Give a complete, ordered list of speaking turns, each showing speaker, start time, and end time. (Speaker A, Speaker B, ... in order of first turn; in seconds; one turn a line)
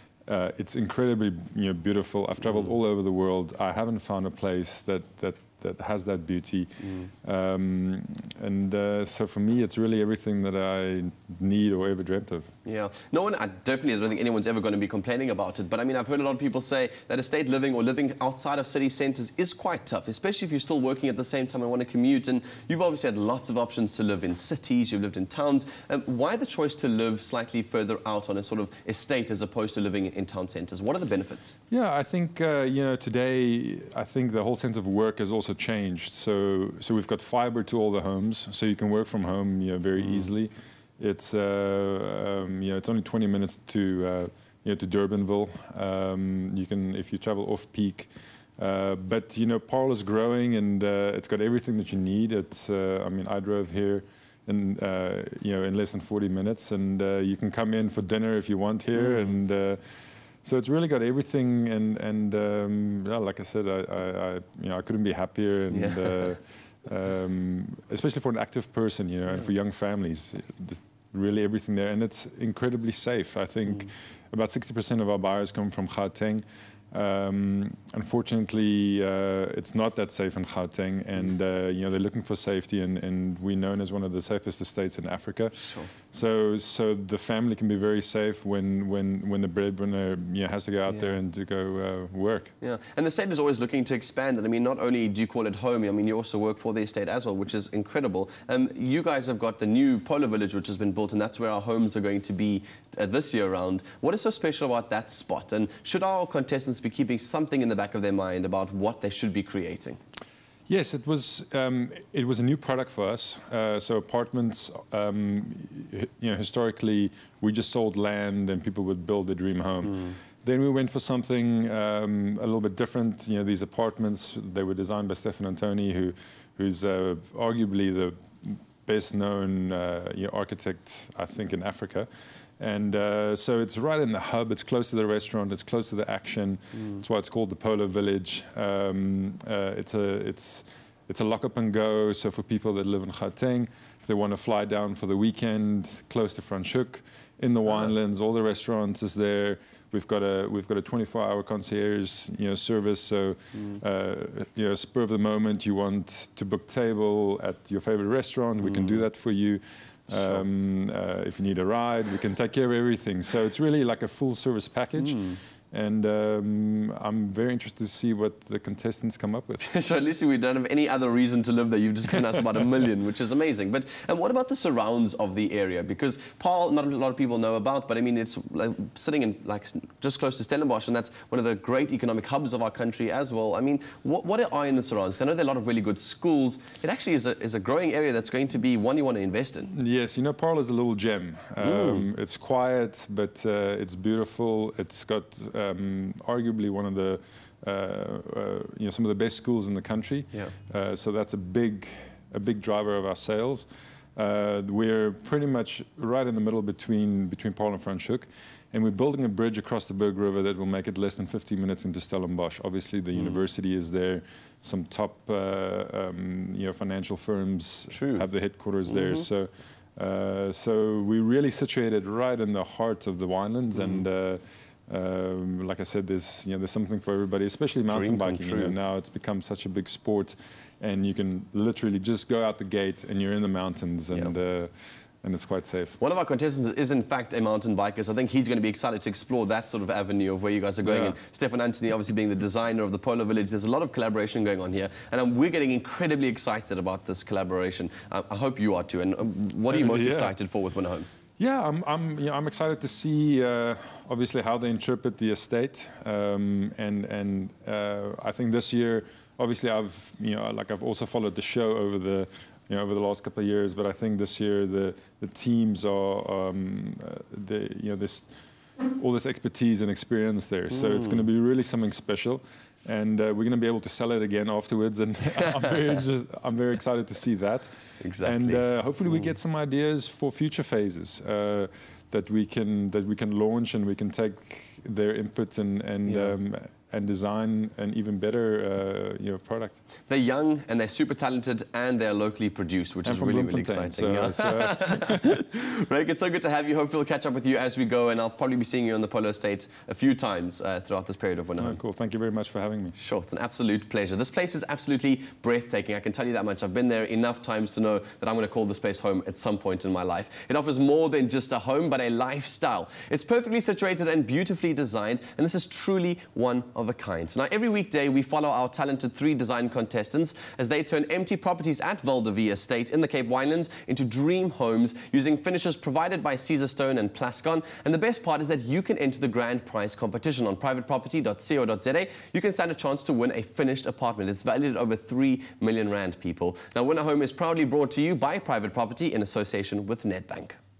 Speaker A: 0.3-12.5
Speaker B: 6.8-7.1
Speaker B: 12.7-31.6
Speaker A: 31.7-85.5
Speaker B: 40.0-40.3
Speaker B: 59.0-59.4
Speaker B: 65.7-66.2
Speaker B: 85.6-85.9
Speaker A: 86.1-92.5
Speaker B: 90.9-91.2
Speaker B: 92.6-110.0
Speaker A: 110.7-132.1
Speaker A: 132.6-169.7
Speaker B: 136.8-137.0
Speaker B: 158.6-159.1
Speaker B: 165.0-165.4
Speaker B: 169.6-189.7
Speaker A: 189.7-236.0
Speaker B: 191.6-192.1
Speaker B: 217.9-218.3
Speaker B: 218.9-219.3
Speaker B: 223.8-224.0
Speaker B: 227.8-228.8
Speaker B: 236.0-251.1
Speaker A: 240.8-241.2
Speaker A: 249.7-250.3
Speaker A: 251.4-268.4
Speaker A: 269.0-289.8
Speaker B: 270.7-271.3
Speaker B: 278.0-279.3
Speaker B: 286.1-286.4
Speaker B: 290.1-301.8
Speaker A: 293.0-295.4
Speaker A: 301.6-302.9
Speaker B: 303.0-340.6